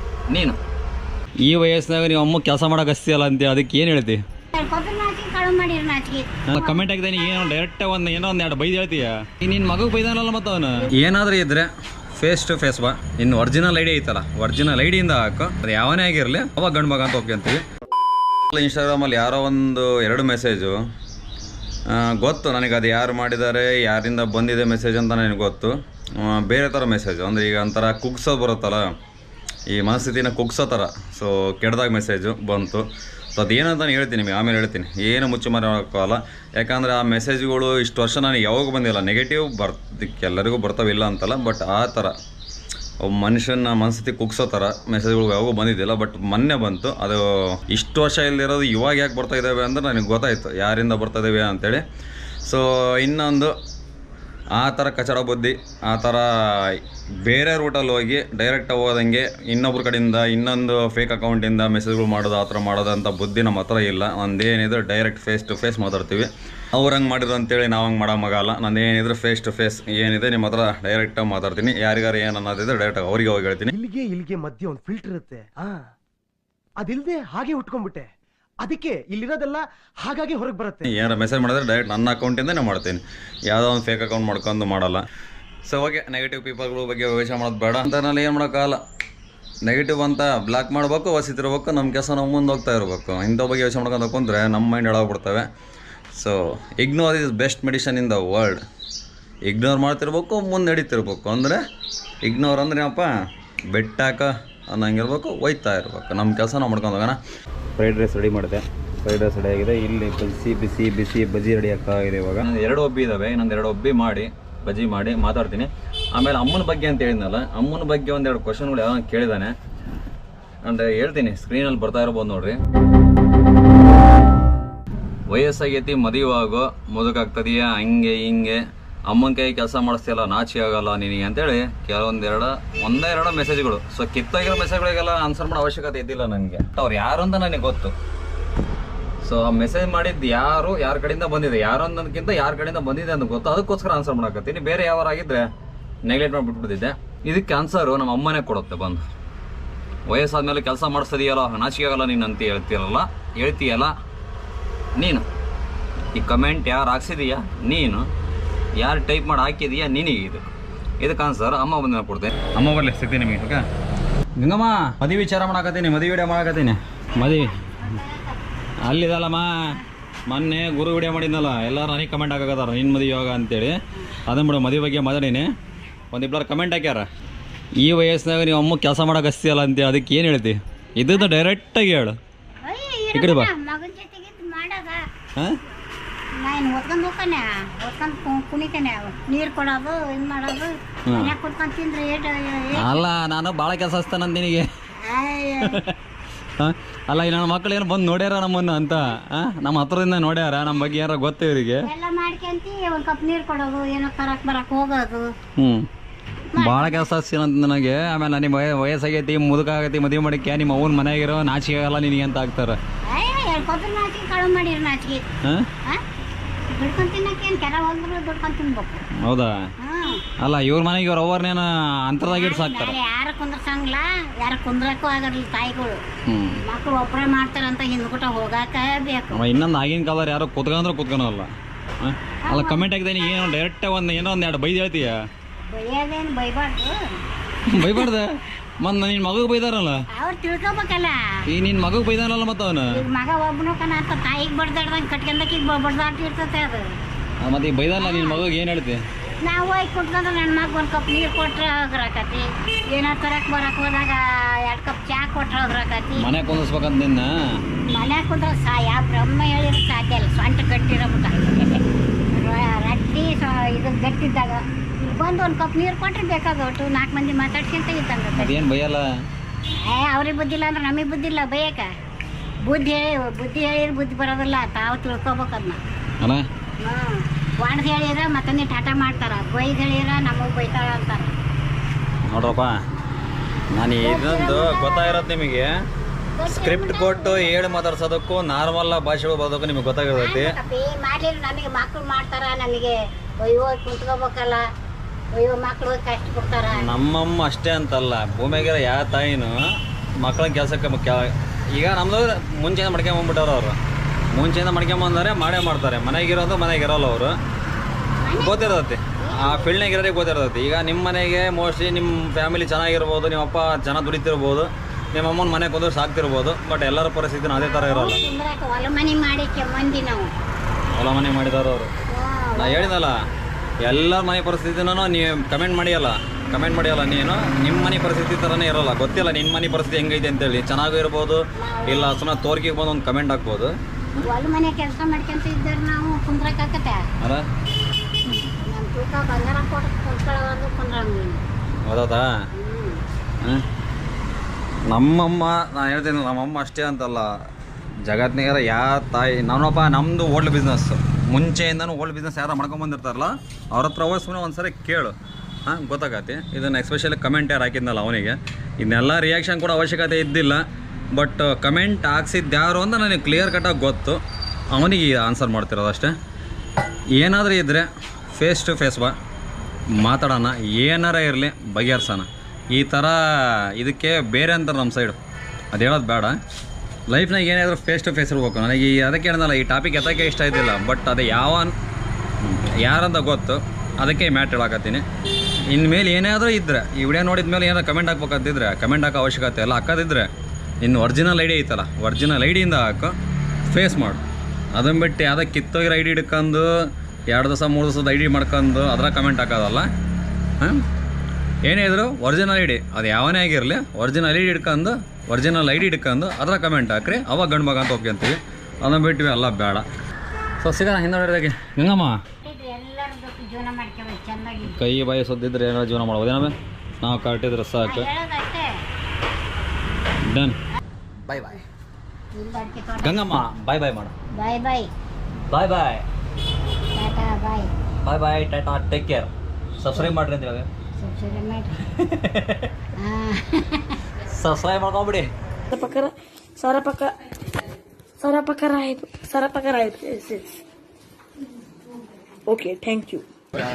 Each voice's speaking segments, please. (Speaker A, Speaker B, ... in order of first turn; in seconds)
Speaker A: 0.3-0.6, 1.4-4.2, 6.5-17.6, 18.5-20.8, 21.9-28.9, 29.7-32.9, 33.4-42.1, 43.0-51.8, 52.5-53.5, 54.6-73.7, 80.9-85.0, 85.7-88.8, 89.7-95.5, 96.1-98.6, 99.5-101.6, 102.2-103.1, 103.7-107.2, 107.8-119.5, 120.6-122.6, 125.3-137.9, 139.2-145.5, 146.1-149.1, 150.1-153.9, 155.0-155.2, 156.2-158.1, 158.8-160.5, 161.0-163.6, 164.4-167.6, 168.8-175.5, 176.1-177.1, 177.8-182.2, 183.1-183.5, 191.1-191.3, 192.8-194.7, 195.7-195.9, 196.6-201.9, 205.6-205.9, 206.6-212.8, 215.4-215.7, 219.2-219.7, 220.4-223.0, 226.3-226.6, 229.3-231.5, 232.0-235.2, 237.7-240.0, 241.5-243.0, 247.4-249.0, 256.2-257.3, 268.4-269.1, 282.3-282.8, 283.7-285.7, 286.4-290.6, 296.8-299.6, 300.2-303.8, 304.3-307.4, 308.4-318.2, 320.9-321.9, 322.6-323.1, 323.8-333.7, 337.2-337.5, 341.9-342.3, 344.9-347.3, 348.1-355.1, 355.7-360.6, 361.1-364.2, 364.7-366.1, 367.2-369.1, 369.9-375.2, 375.7-376.4, 377.1-381.8, 382.4-385.1, 385.7-390.3, 390.8-393.1, 393.7-394.2, 394.7-399.9, 400.6-400.8, 401.6-409.9, 410.6-412.2, 414.6-418.1, 420.3-420.6, 421.2-421.6, 423.0-424.1, 425.5-426.0, 428.0-430.7, 431.9-432.7, 434.3-435.3
Speaker B: 4.5-6.8, 167.1-168.4, 182.6-185.0, 186.4-193.1, 195.0-195.8, 201.8-205.3, 206.5-207.1, 213.1-215.2, 216.7-219.0, 219.8-220.2, 222.2-226.0, 226.7-229.4, 232.5-232.9, 235.7-236.9, 237.8-238.1, 240.2-241.2, 242.9-246.8, 248.0-248.4, 249.4-256.3, 257.9-268.6, 269.8-271.9, 272.7-275.8, 276.8-281.4, 283.9-285.3, 286.4-287.8, 290.1-294.6, 295.3-296.9, 308.2-309.7, 317.6-320.3, 322.1-322.9, 331.6-332.2, 334.2-337.0, 338.6-341.4, 342.6-343.0, 412.4-414.9, 417.8-418.7, 422.4-423.3, 424.4-424.9, 426.9-427.7, 431.0-431.8, 433.0-434.0
Speaker C: 73.7-75.9, 76.8-78.1, 78.6-80.9
Speaker D: 435.7-437.2, 438.2-440.6, 442.5-443.3